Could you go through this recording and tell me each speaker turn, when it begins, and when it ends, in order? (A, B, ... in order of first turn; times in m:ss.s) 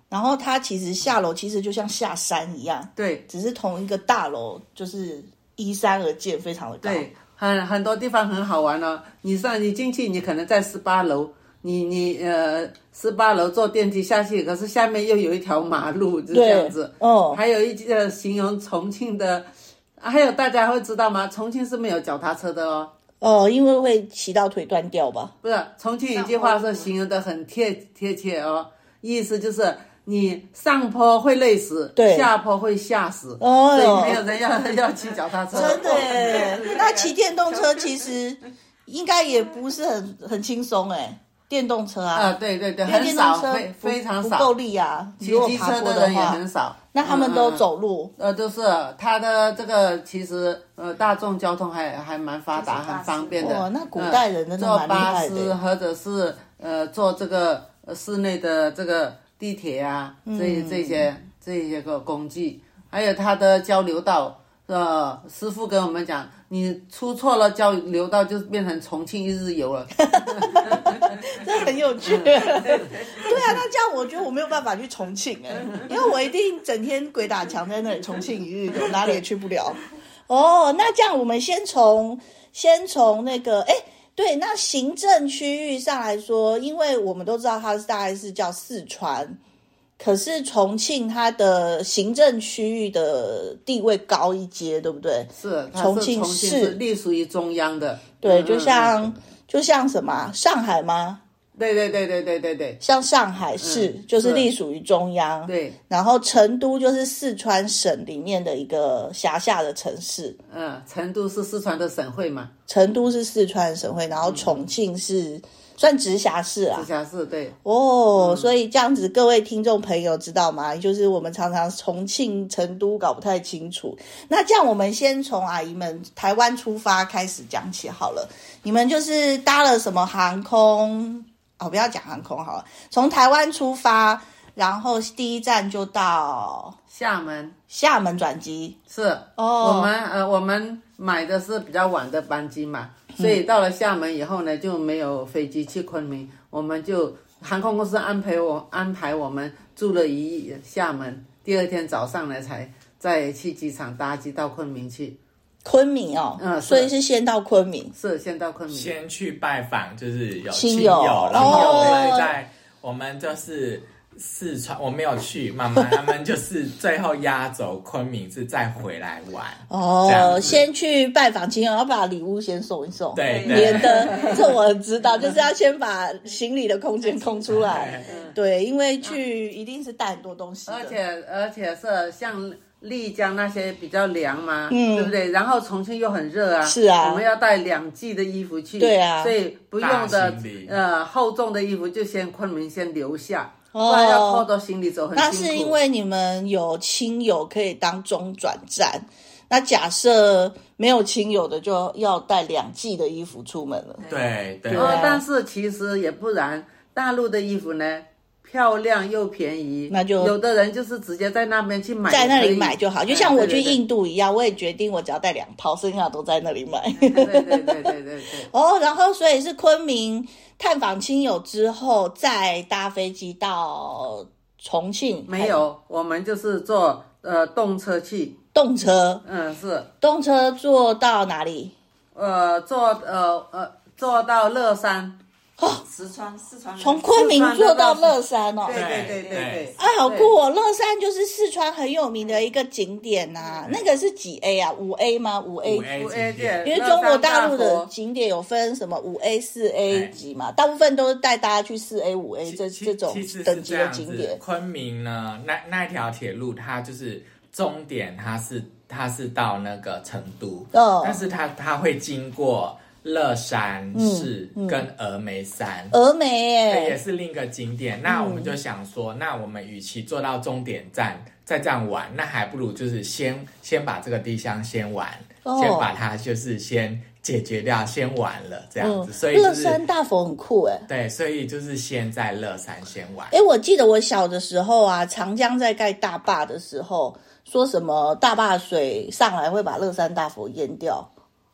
0:00.1-0:07.1 A
0:03.0-0:03.2 B
0:06.8-0:22.9 B
0:16.3-0:17.4 A
0:23.2-0:25.3 A
0:25.4-0:37.1 B
0:26.1-0:26.9 C
0:32.0-0:32.3 A
0:33.4-0:34.2 A
0:35.5-0:42.3 A
0:35.7-0:36.6 C
0:42.1-0:44.5 B
0:42.9-0:46.4 A
0:45.2-0:47.6 B
0:46.9-0:48.1 A
0:48.2-1:11.4 B
0:52.5-0:53.5 C
0:53.4-0:55.6 A
1:00.3-1:01.1 A
1:10.1-1:29.4 A
1:12.0-1:13.6 B
1:30.0-1:36.8 A
1:35.4-1:39.1 B
1:38.2-1:41.2 A
1:41.6-1:42.8 B
1:42.8-1:50.4 A
1:43.6-1:44.5 B
1:45.5-1:45.8 B
1:50.5-1:52.5 B
1:52.7-1:56.9 A
1:54.2-1:54.6 B
1:56.8-1:57.6 B
1:57.6-2:16.8 A
1:58.2-1:58.5 B
2:16.9-2:17.6 B
2:17.7-2:18.8 A
2:18.9-2:35.2 B
2:19.4-2:19.9 A
2:35.6-2:37.9 A
2:36.4-2:36.9 B
2:37.9-2:38.9 B
2:38.7-2:50.6 D
2:40.5-2:42.4 A
2:41.3-2:42.1 B
2:49.7-3:01.0 A
2:53.1-2:54.3 D
2:53.2-2:55.4 C
2:54.1-2:54.5 B
2:57.0-2:57.4 C
2:57.5-2:58.1 D
2:57.7-2:58.4 B
2:58.0-2:58.4 C
3:00.7-3:15.8 B
3:04.7-3:05.2 A
3:06.6-3:07.2 A
3:08.8-3:09.4 A
3:09.8-3:10.8 D
3:13.7-3:14.5 A
3:15.1-3:24.1 A
3:24.1-3:25.2 D
3:24.7-3:25.2 A
3:24.7-3:33.8 B
3:29.9-3:30.4 A
3:32.1-3:38.0 A
3:36.9-3:37.2 C
3:37.1-3:38.5 B
3:38.5-3:45.6 A
3:45.3-3:48.4 B
3:48.5-3:49.2 A
3:49.2-3:49.9 B
3:50.0-3:51.7 A
3:52.1-3:55.2 B
3:55.8-3:57.2 C
3:56.8-3:58.9 A
3:57.1-4:00.3 B
3:58.7-3:59.7 D
3:58.9-3:59.6 C
3:59.8-4:05.9 A
4:05.6-4:06.6 D
4:05.9-4:07.9 B
4:06.6-4:14.4 A
4:09.9-4:10.1 D
4:12.4-4:26.0 D
4:20.7-4:21.2 A
4:23.9-4:24.9 A
4:25.9-4:27.0 A
4:26.7-4:39.8 D
4:28.1-4:28.5 A
4:35.4-4:35.9 A
4:38.8-4:40.9 A
4:40.9-4:43.4 D
4:43.3-4:51.1 A